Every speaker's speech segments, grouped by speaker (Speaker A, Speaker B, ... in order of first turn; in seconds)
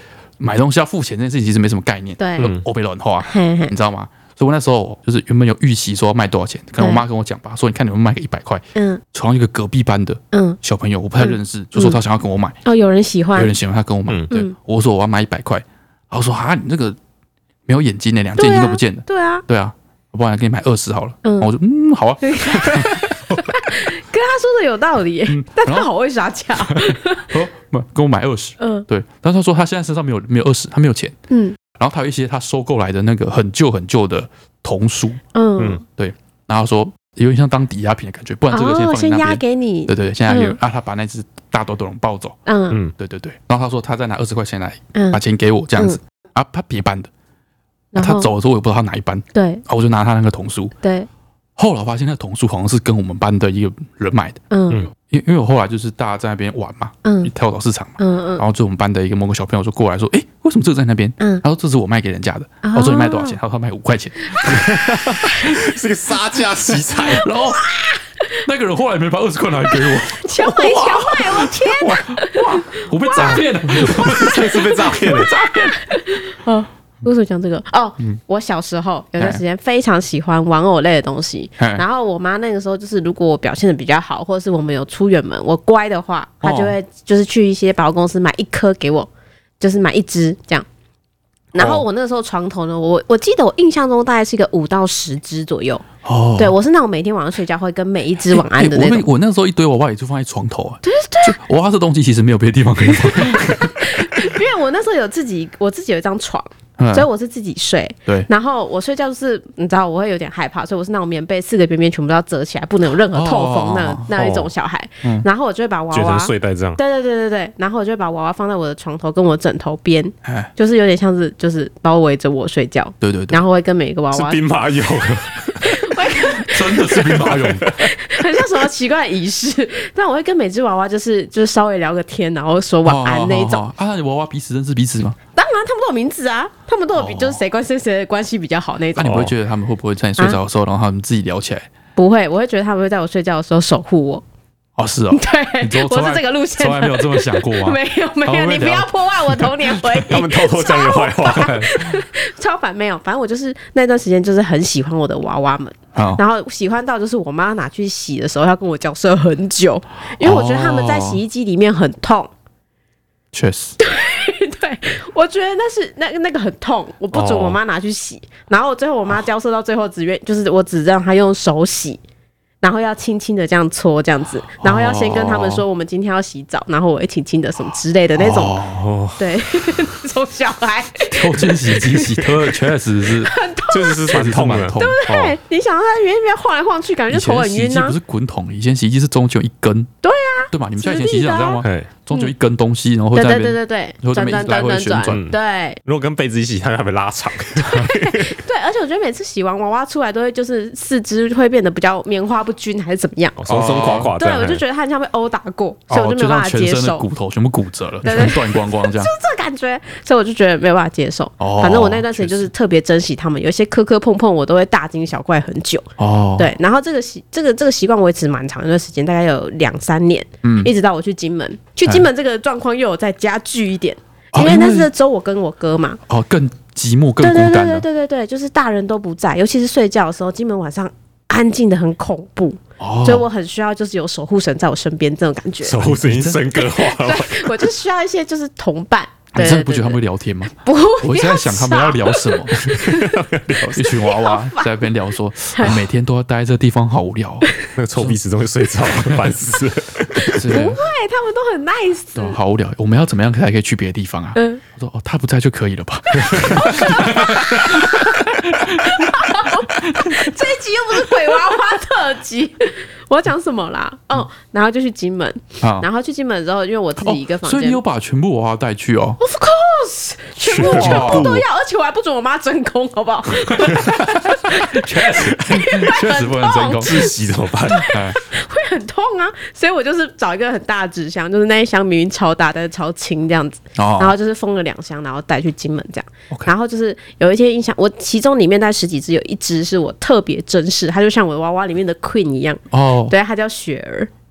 Speaker A: 0.4-12.6, 13.3-17.0, 17.7-23.8, 25.3-25.9, 26.6-31.2, 31.8-35.2, 35.9-42.4, 43.0-47.1, 48.0-50.8, 51.6-54.4, 55.0-65.7, 66.7-67.7, 68.4-76.0, 81.6-81.8, 86.4-86.7, 91.6-91.8, 96.0-96.5, 98.3-104.1, 106.8-107.1, 113.1-114.1, 120.2-120.5, 123.0-123.4, 126.2-127.7, 132.8-135.2, 136.9-137.4, 138.9-141.7, 144.8-150.2, 151.3-151.9, 155.9-156.2, 160.2-161.2, 163.3-163.8, 174.6-175.6, 178.2-178.9, 181.1-183.3, 184.1-185.0, 187.1-189.9, 190.5-195.3, 203.5-204.1, 205.9-209.1, 211.4-212.5, 216.0-216.5, 220.4-220.7, 224.3-224.9, 226.1-227.9, 232.8-233.3, 235.8-236.5, 239.3-242.8, 243.7-248.2, 250.3-250.8, 252.2-261.6, 265.6-265.9, 267.0-269.2, 270.6-271.4, 273.5-277.1, 277.7-278.2, 283.8-284.1, 292.7-293.1
Speaker B: 2.2-2.5, 3.2-3.7, 8.8-9.0, 10.3-10.6, 11.2-12.0, 12.7-13.5, 18.4-19.4, 21.2-21.5, 22.2-27.3, 28.6-28.9, 31.3-31.6, 35.3-35.8, 38.5-40.6, 42.5-42.8, 45.0-45.2, 47.9-48.3, 49.3-49.6, 50.8-51.1, 54.5-54.9, 57.0-57.3, 58.0-58.4, 62.6-63.4, 64.3-65.5, 67.1-68.4, 69.9-90.7, 91.5-95.9, 96.4-99.1, 100.8-101.4, 103.0-124.5, 125.4-133.6, 135.4-139.3, 142.0-144.2, 145.1-162.3, 163.8-172.0, 172.6-178.6, 179.2-182.3, 183.2-188.0, 190.0-192.3, 193.1-195.8, 197.6-203.4, 204.2-207.1, 208.0-226.0, 227.2-235.9, 236.6-240.0, 240.6-243.2, 244.0-244.8, 245.5-245.8, 247.5-247.7, 250.5-252.4, 254.3-254.6, 256.3-267.8, 269.2-277.1, 277.7-294.1
Speaker C: 2.4-2.6, 64.5-67.3, 70.5-71.0, 73.2-75.3, 114.1-114.5, 115.9-116.8, 124.1-125.8, 127.3-127.8, 139.0-139.3, 150.0-151.6, 167.1-167.6, 178.8-179.2, 183.7-185.4, 191.6-191.9, 195.1-198.4, 203.4-204.6, 235.6-237.7, 242.7-244.0, 247.8-250.4, 270.4-271.4, 276.8-277.9